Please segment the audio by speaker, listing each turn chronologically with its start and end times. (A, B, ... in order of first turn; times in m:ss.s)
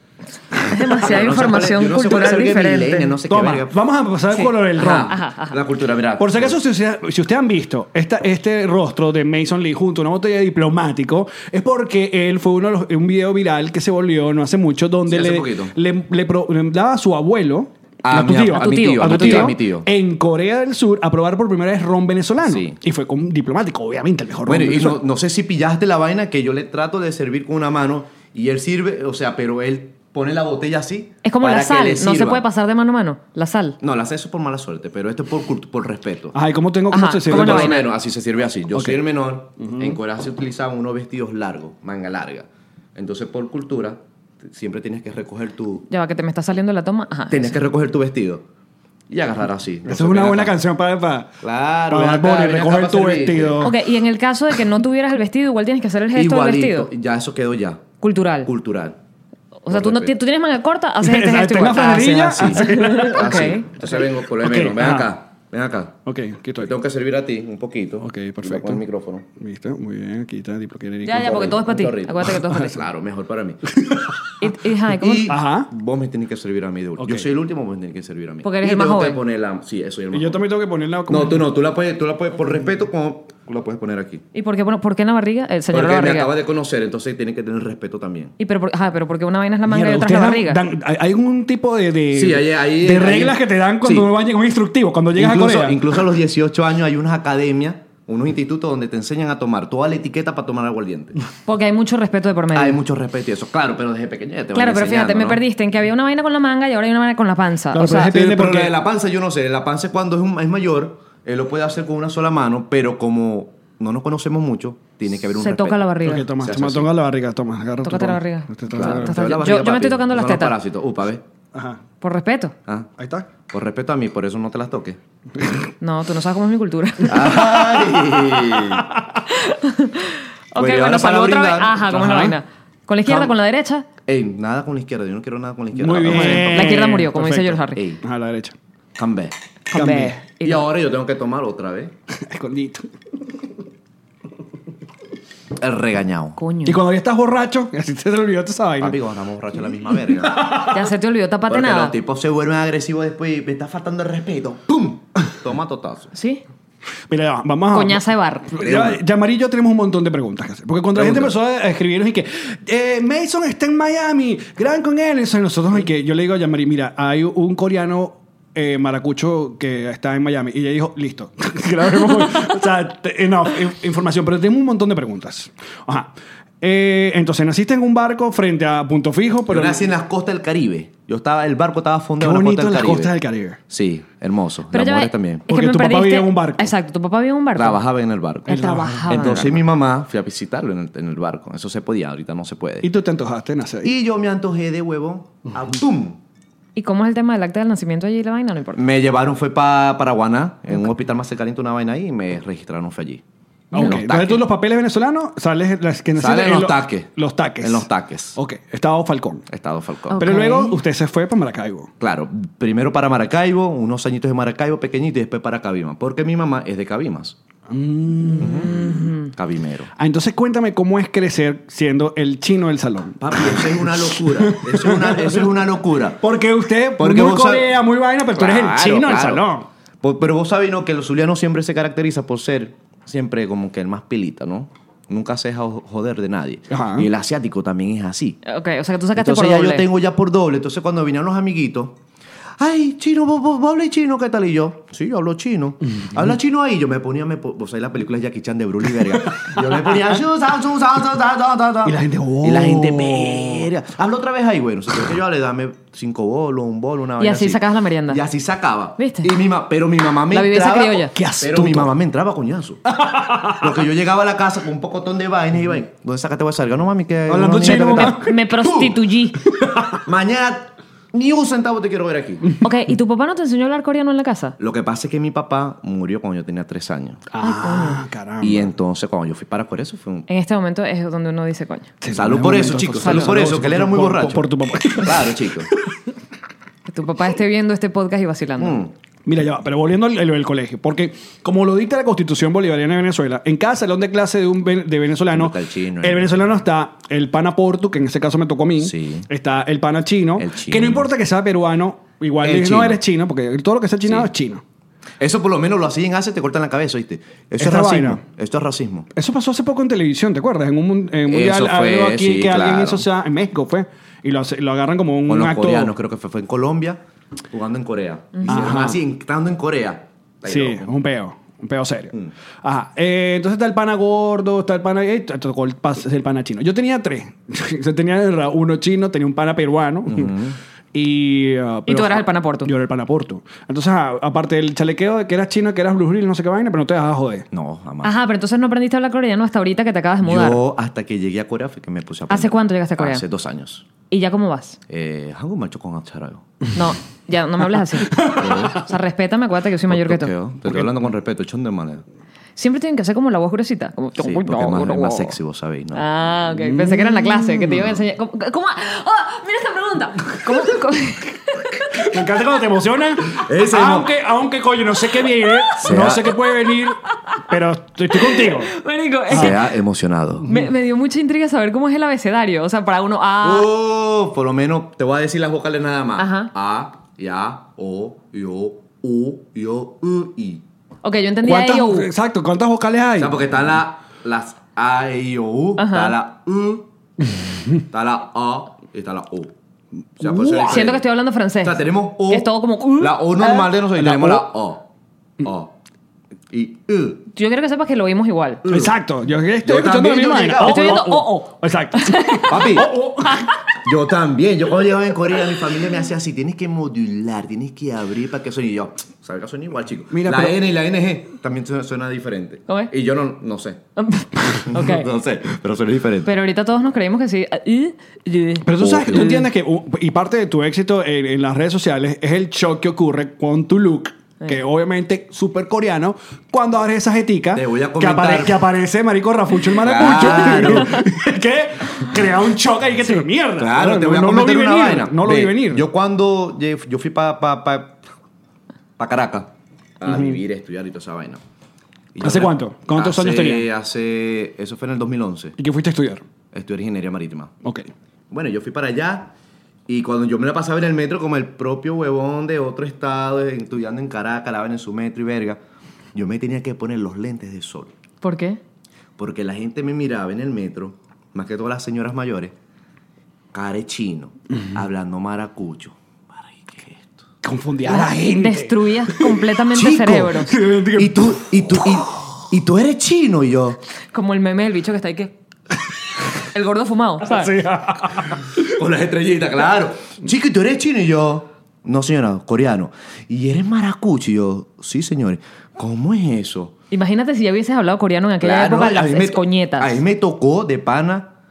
0:00.5-0:03.2 A
0:00.8-0:03.8 B
0:03.2-0:05.2 C
0:04.3-0:05.6 A
0:04.7-0:06.6 B
0:06.2-0:25.0 C
0:15.1-0:15.7 B
0:18.0-0:19.9 B
0:18.6-0:19.5 A
0:22.4-0:22.8 B
0:24.4-0:32.4 B
0:31.2-0:33.8 A
0:33.8-0:36.4 B
0:36.3-0:37.8 C
0:36.9-0:37.9 A
0:37.2-0:45.8 B
0:38.7-0:39.0 C
0:39.6-0:40.0 C
0:45.9-0:47.5 A
0:47.3-0:48.4 B
0:49.1-0:50.6 B
0:49.8-0:51.4 C
0:51.4-0:53.6 B
0:51.9-0:53.8 C
0:53.6-0:56.9 A
0:56.1-0:57.9 B
0:58.0-0:58.5 A
0:58.4-0:59.0 B
0:59.6-1:04.0 A
0:59.7-1:00.2 B
1:01.0-1:03.3 C
1:02.3-1:06.0 B
1:04.4-1:05.1 C
1:06.0-1:06.7 C
1:06.6-1:09.3 B
1:08.0-1:08.8 C
1:09.4-1:11.4 C
1:11.0-1:12.8 A
1:11.1-1:13.8 B
1:13.8-1:14.0 C
1:14.4-1:15.3 A
1:14.8-1:20.4 B
1:15.3-1:15.7 C
1:17.0-1:17.2 C
1:18.4-1:19.2 A
1:20.1-1:21.4 C
1:21.1-1:24.2 B
1:24.3-1:26.3 A
1:25.7-1:28.3 B
1:28.4-1:30.6 A
1:29.6-1:35.8 C
1:32.1-1:34.1 B
1:35.2-1:41.2 B
1:41.4-1:42.8 A
1:42.5-1:45.4 B
1:44.5-1:48.1 A
1:47.7-1:48.7 C
1:48.0-1:56.9 B
1:55.3-1:56.2 A
1:56.0-1:59.2 C
1:57.8-2:00.6 A
1:58.7-2:01.2 B
2:01.5-2:01.8 C
2:02.0-2:02.5 A
2:03.0-2:03.3 C
2:03.5-2:05.0 B
2:05.8-2:07.4 A
2:07.0-2:08.9 B
2:07.4-2:08.0 C
2:09.3-2:13.9 A
2:10.6-2:12.2 B
2:11.9-2:12.4 C
2:13.0-2:13.3 B
2:14.0-2:17.0 B
2:15.7-2:18.5 C
2:16.1-2:17.8 A
2:17.7-2:18.0 B
2:19.0-2:19.4 B
2:19.7-2:20.6 A
2:19.7-2:20.2 C
2:20.4-2:21.9 B
2:22.1-2:22.9 C
2:25.6-2:26.4 B
2:26.4-2:26.8 A
2:26.6-2:29.0 C
2:28.8-2:30.5 B
2:30.2-2:30.8 C
2:30.6-2:31.9 A
2:31.5-2:36.1 B
2:36.1-2:36.4 A
2:37.1-2:59.9 C
2:37.7-2:38.5 A
2:38.6-2:39.0 B
2:40.9-2:41.3 B
2:59.5-3:03.1 B
3:02.2-3:03.6 C
3:03.7-3:05.5 B
3:04.7-3:07.8 A
3:05.5-3:06.7 C
3:07.5-3:12.9 B
3:08.5-3:09.6 A
3:08.5-3:09.4 C
3:12.8-3:13.9 C
3:13.8-3:16.2 B
3:16.8-3:18.8 A
3:18.7-3:24.5 B
3:23.7-3:29.4 C
3:26.2-3:28.4 B
3:29.5-3:30.2 B
3:30.1-3:30.8 A
3:30.1-3:31.9 C
3:32.0-3:37.4 B
3:37.7-3:39.1 C
3:38.4-3:39.9 B
3:38.7-3:39.1 A
3:40.0-3:45.6 C
3:43.2-3:46.2 B
3:46.2-3:49.7 C
3:47.0-3:47.8 B
3:48.3-3:49.4 B
3:50.0-3:58.4 B
3:56.7-3:57.1 C
3:58.4-3:59.9 A
3:59.2-4:02.0 B
4:02.6-4:22.9 B
4:09.0-4:09.6 C
4:11.8-4:13.7 C
4:17.2-4:18.2 A
4:19.0-4:19.3 A
4:20.3-4:21.1 A
4:21.1-4:21.9 C
4:22.9-4:23.7 C
4:23.5-4:29.0 B
4:27.3-4:28.4 C
4:27.7-4:29.4 A
4:29.4-4:30.0 C
4:30.0-4:32.4 B
4:32.6-4:34.6 A
4:34.6-4:37.2 B
4:37.3-4:38.7 C
4:37.4-4:38.0 A
4:38.4-4:40.3 B
4:40.3-4:41.9 A
4:42.0-4:45.8 C
4:42.1-4:45.7 B
4:43.0-4:43.4 A
4:46.8-4:48.8 A
4:48.6-4:48.9 B
4:49.2-5:04.6 C
4:55.3-4:56.5 B
4:58.8-4:59.3 B
5:00.4-5:01.1 B
5:02.4-5:03.0 B
5:04.0-5:04.3 B
5:05.2-5:09.1 B
5:07.6-5:08.2 C
5:09.1-5:15.9 C
5:11.3-5:13.0 B
5:15.3-5:17.0 B
5:17.5-5:20.9 B
5:18.4-5:19.0 C
5:20.4-5:30.3 C
5:30.1-5:30.6 B
5:30.9-5:37.4 C
5:31.9-5:32.7 A
5:37.5-5:38.1 B
5:38.0-5:40.6 A
5:40.2-5:43.9 B
5:42.3-5:43.2 A
5:44.1-5:44.8 A
5:44.9-5:46.4 B
5:46.7-5:50.3 A
5:48.1-5:48.6 C
5:48.3-5:48.9 B
5:49.9-5:52.0 B
5:52.6-5:55.4 A
5:54.2-5:56.1 B
5:55.9-6:02.0 A
5:56.6-5:57.7 C
5:57.7-5:57.9 B
6:01.9-6:08.7 C
6:03.4-6:04.1 B
6:05.8-6:06.3 B
6:07.1-6:07.4 A
6:08.1-6:09.6 A
6:09.3-6:10.5 B
6:10.5-6:13.7 A
6:13.4-6:20.6 B
6:16.2-6:16.5 A
6:21.0-6:22.1 A
6:21.4-6:23.4 C
6:23.2-6:26.8 B
6:25.8-6:26.1 A
6:27.9-6:29.5 B
6:30.2-6:31.1 B
6:30.2-6:30.8 C
6:30.6-6:33.7 A
6:31.6-6:34.9 B
6:33.9-6:34.5 C
6:35.4-6:35.7 B
6:36.5-6:37.2 B
6:37.3-6:38.6 A
6:38.6-6:38.9 B
6:38.7-6:43.5 C
6:39.6-6:41.0 B
6:40.6-6:43.8 A
6:42.5-6:42.9 B
6:43.8-6:53.8 B
6:50.1-6:50.6 C
6:54.0-6:55.1 A
6:54.6-6:56.3 B
6:56.2-6:59.4 A
6:58.6-7:15.8 C
6:58.8-6:59.4 B
7:07.5-7:08.6 B
7:09.8-7:11.0 B
7:13.6-7:18.0 B
7:19.0-7:21.4 B
7:20.0-7:20.4 C
7:22.1-7:25.6 B
7:22.2-7:23.7 C
7:25.6-7:26.2 C
7:26.5-7:27.5 B
7:28.3-7:29.3 B
7:29.9-7:35.6 B
7:36.1-7:37.9 B
7:38.2-7:38.6 A
7:39.2-7:42.5 B
7:43.5-7:47.2 B
7:47.4-7:52.2 C
7:47.8-7:50.5 A
7:49.9-7:50.2 B
7:50.9-7:53.8 B
7:54.1-7:55.3 A
7:56.4-7:57.5 A
7:57.2-7:58.6 C
7:58.5-8:06.7 B
8:06.9-8:10.0 A
8:08.4-8:11.3 B